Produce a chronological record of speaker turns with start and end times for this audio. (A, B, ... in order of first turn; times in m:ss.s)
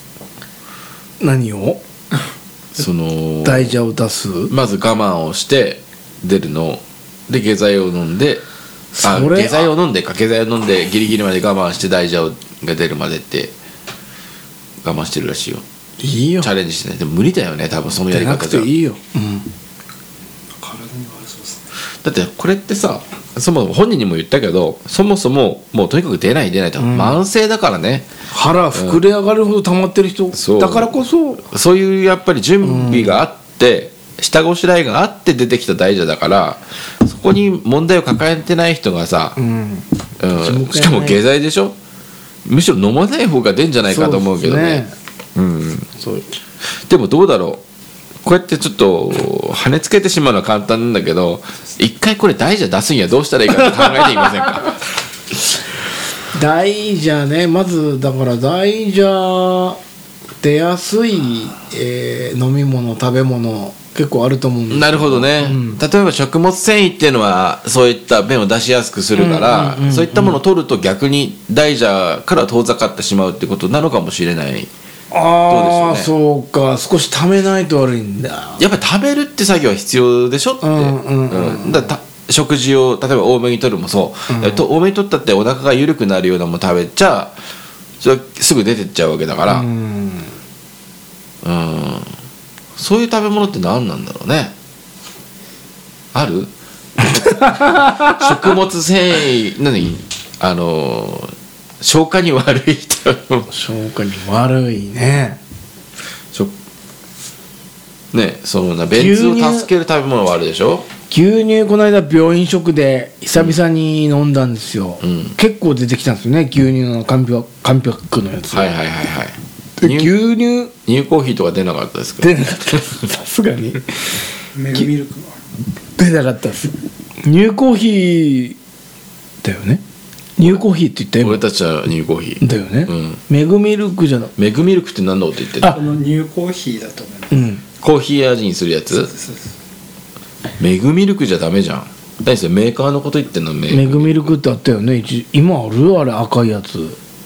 0:01.2-0:01.8 A
0:02.8-0:03.8 B
0:03.4-0:04.5 A
0:04.5-0:08.4 B
0:08.9-0:09.7 A
0:09.0-0:13.5 B
0:14.8-0:15.6 B
0:16.0-0:16.5 A
0:16.4-0:18.7 B
0:18.1-0:19.5 A
0:20.6-0:21.6 C
0:22.0-0:28.1 B
0:26.8-0:27.2 A
0:28.3-0:31.4 A
0:28.7-0:29.0 B
0:30.3-0:39.4 B
0:32.6-0:33.2 A
0:39.4-0:41.2 A
0:40.2-0:41.8 B
0:42.4-0:44.8 B
0:43.9-0:44.9 A
0:45.4-0:45.9 B
0:46.0-0:46.2 A
0:46.9-0:47.6 B
0:48.2-0:54.8 B
0:56.3-0:59.8 A
1:00.4-1:05.8 A
1:04.7-1:14.7 B
1:09.2-1:10.4 A
1:15.1-1:18.6 A
1:15.5-1:16.1 B
1:18.6-1:27.4 B
1:20.6-1:21.9 A
1:24.3-1:24.6 A
1:28.0-1:29.7 B
1:29.5-1:30.3 A
1:31.4-1:32.1 B
1:32.8-1:34.6 B
1:36.1-1:43.5 B
1:37.5-1:38.1 A
1:43.5-1:45.4 A
1:48.1-1:50.9 B
1:48.9-1:49.7 A
1:51.1-1:58.7 A
1:55.0-1:55.4 B
1:58.5-2:00.2 B
1:59.8-2:00.7 A
2:00.8-2:02.8 B
2:02.2-2:03.8 A
2:04.6-2:05.4 C
2:06.0-2:08.6 A
2:09.4-2:09.8 A
2:10.4-2:11.4 A
2:11.2-2:13.2 B
2:12.4-2:14.3 A
2:14.4-2:15.8 B
2:15.7-2:17.4 C
2:17.3-2:17.6 A
2:17.8-2:19.1 B
2:18.9-2:19.6 C
2:20.6-2:24.3 B
2:23.7-2:27.0 A